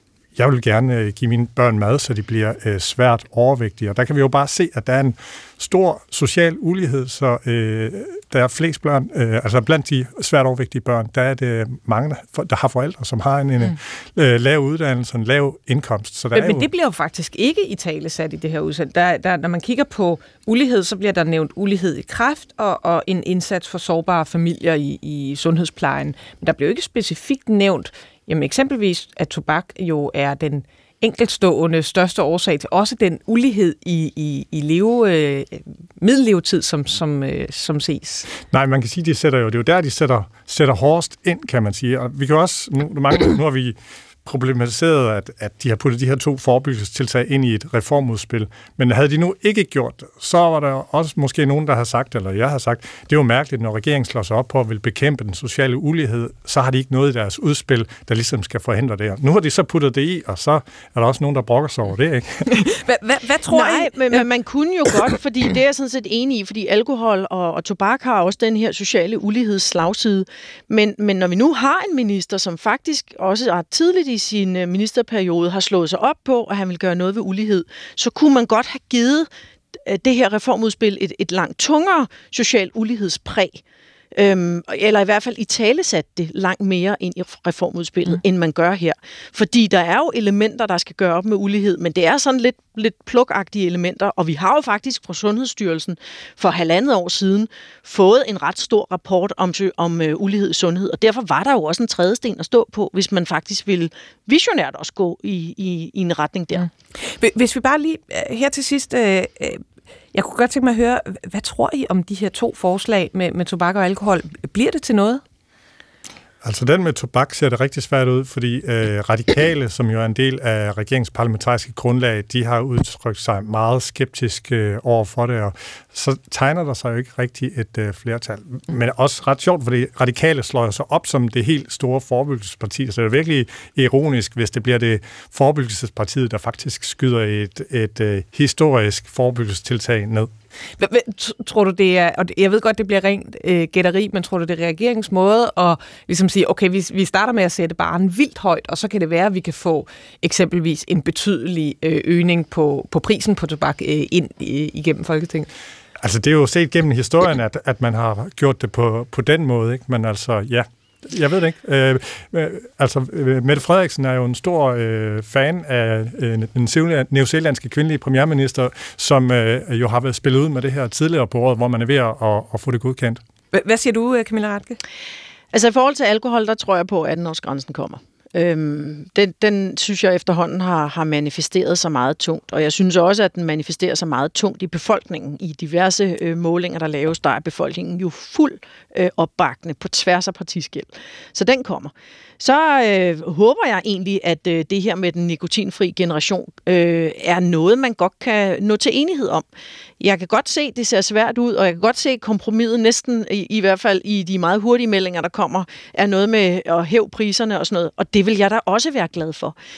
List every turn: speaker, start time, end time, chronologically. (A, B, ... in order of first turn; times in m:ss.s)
0:00.4-0:16.7 A
0:16.3-0:38.3 B
0:38.4-1:02.6 A
1:02.5-1:04.2 B
1:03.5-1:23.6 C
1:24.1-1:46.7 C
1:47.0-1:49.6 B
1:50.1-1:55.2 B
1:56.4-2:20.3 A
2:20.8-2:35.5 B
2:36.0-2:53.2 A
2:53.5-2:54.8 B
2:55.5-3:19.4 C
3:20.0-3:29.5 C